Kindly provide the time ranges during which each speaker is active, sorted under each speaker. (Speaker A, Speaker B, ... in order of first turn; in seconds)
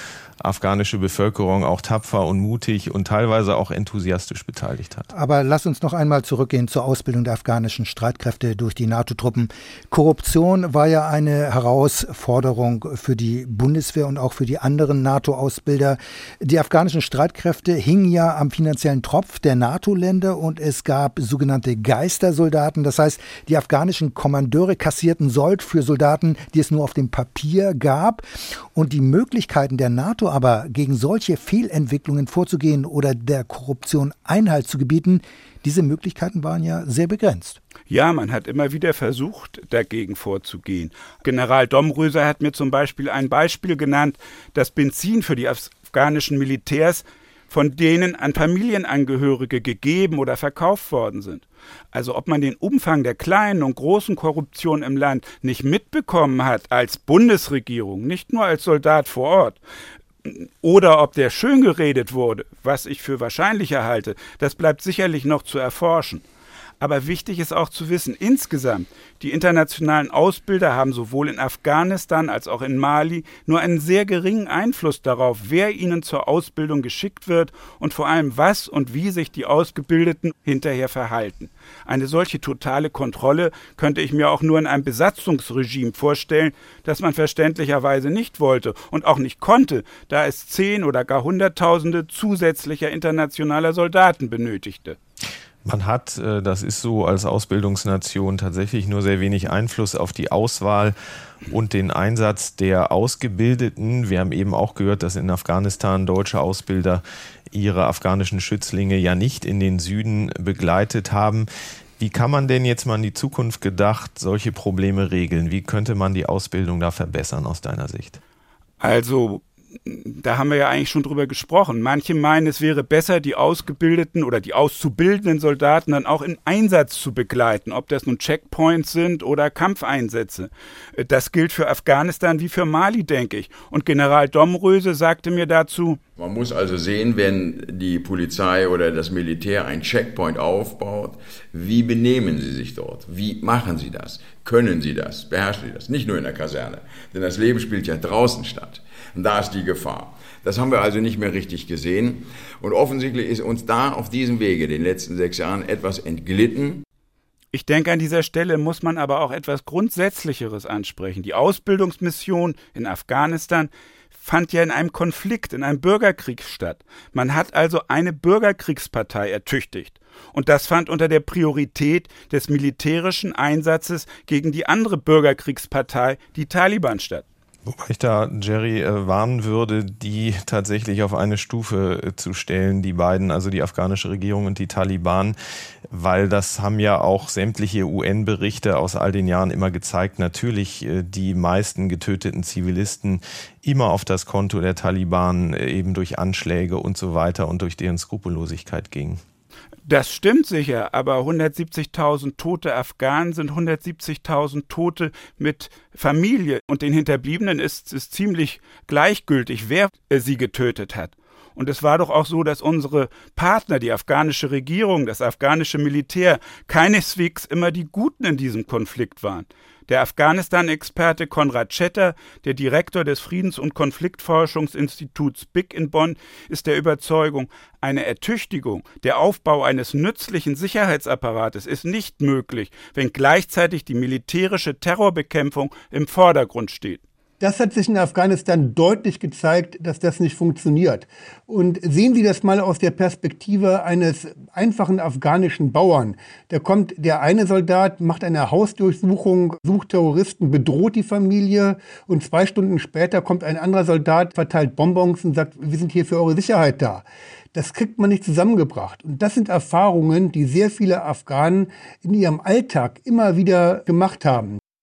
Speaker A: 0.4-5.1, 95.7-101.0, 101.5-111.5, 112.0-118.2, 177.7-185.3, 185.9-199.2
Speaker B: 5.1-37.6
Speaker C: 37.9-59.6, 60.2-66.2, 66.8-95.0, 118.8-136.0, 157.5-177.2, 199.9-237.0
Speaker D: 136.2-156.8
Speaker E: 237.4-264.6